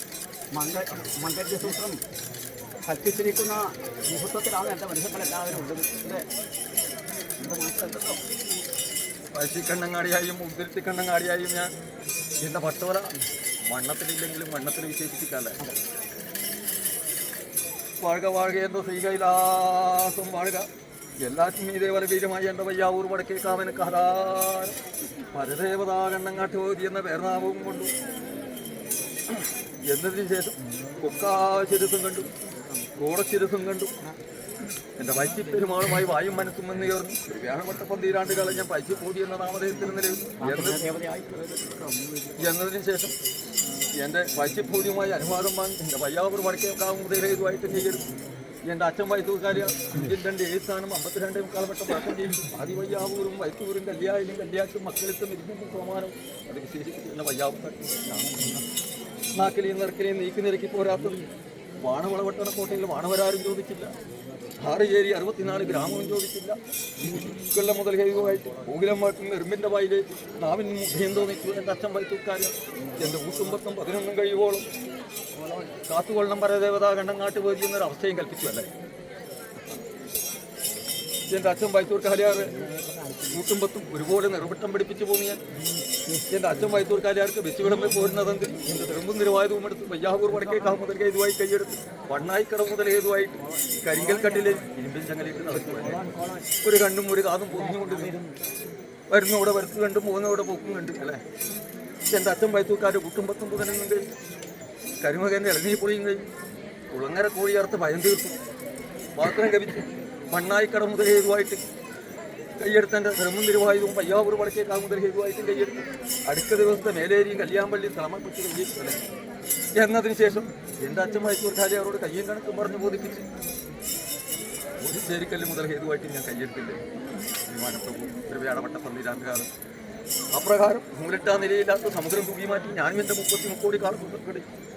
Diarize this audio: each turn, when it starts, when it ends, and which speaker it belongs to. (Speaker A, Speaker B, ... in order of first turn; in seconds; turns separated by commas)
Speaker A: 0.5-2.0, Speaker A: 2.9-6.2, Speaker A: 7.4-8.2, Speaker B: 9.3-11.7, Speaker B: 12.4-13.1, Speaker B: 13.7-15.6, Speaker B: 18.0-20.7, Speaker B: 21.2-24.8, Speaker B: 25.3-27.9, Speaker B: 29.3-32.3, Speaker B: 33.0-33.9, Speaker B: 35.0-40.8, Speaker A: 40.4-42.0, Speaker B: 42.4-43.1, Speaker B: 44.0-48.0, Speaker B: 48.7-58.4, Speaker B: 59.4-61.2, Speaker B: 61.8-63.9, Speaker B: 64.6-74.7, Speaker B: 75.9-78.7, Speaker B: 81.3-82.5, Speaker B: 83.3-85.4, Speaker B: 86.1-96.0, Speaker A: 90.3-90.8, Speaker A: 93.4-94.6, Speaker A: 95.5-96.5, Speaker B: 96.6-98.1, Speaker A: 97.6-98.4, Speaker B: 99.1-101.2, Speaker B: 102.1-104.0, Speaker B: 105.0-106.3, Speaker B: 106.9-108.4, Speaker B: 109.2-111.6, Speaker B: 112.6-119.0, Speaker B: 119.8-123.2, Speaker B: 124.8-126.8, Speaker B: 127.5-129.5, Speaker B: 130.3-134.4